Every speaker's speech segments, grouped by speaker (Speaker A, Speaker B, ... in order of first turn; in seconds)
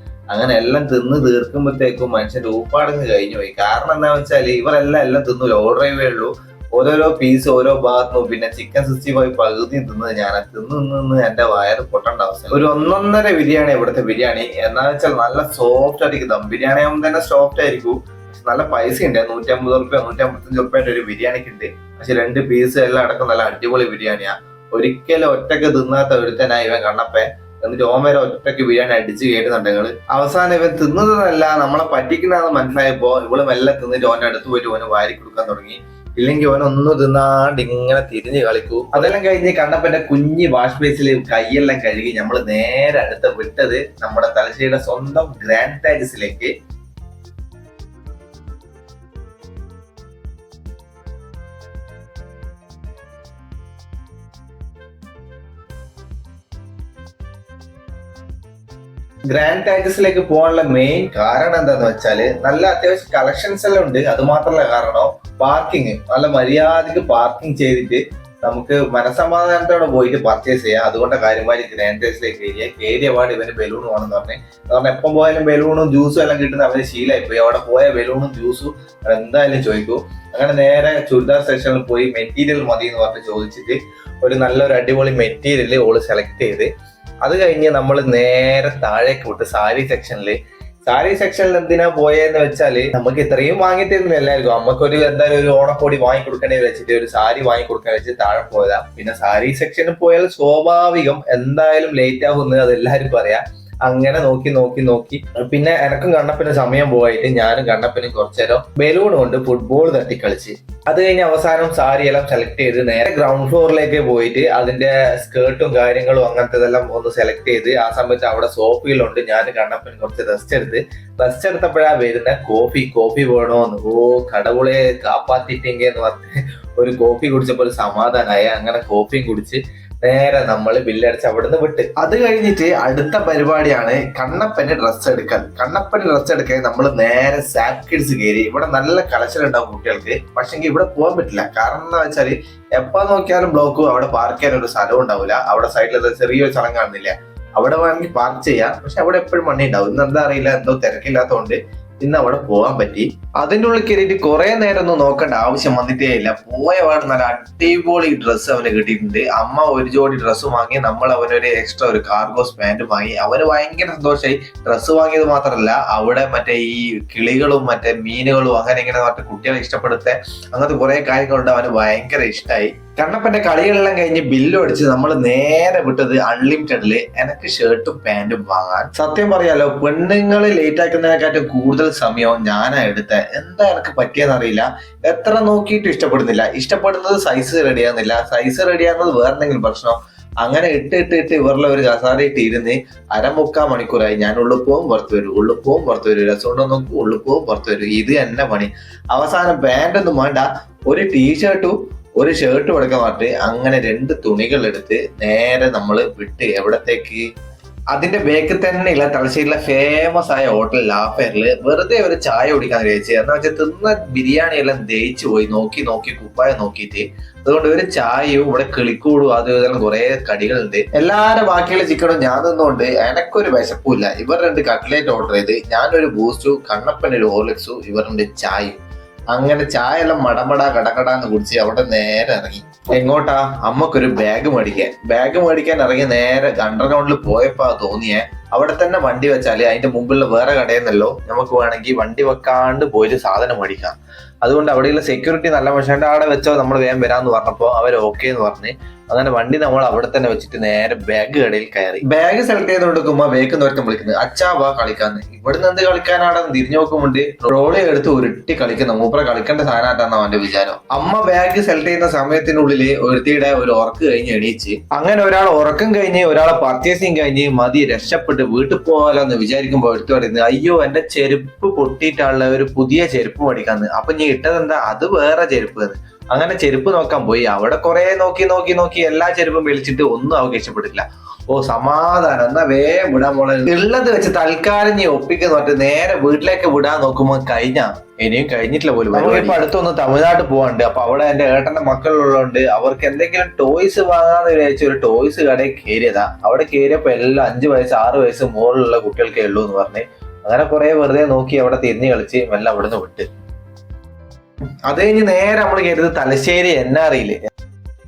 Speaker A: 0.3-46.5, 59.3-86.7, 87.2-207.2, 207.9-228.8, 229.3-303.3, 304.9-307.4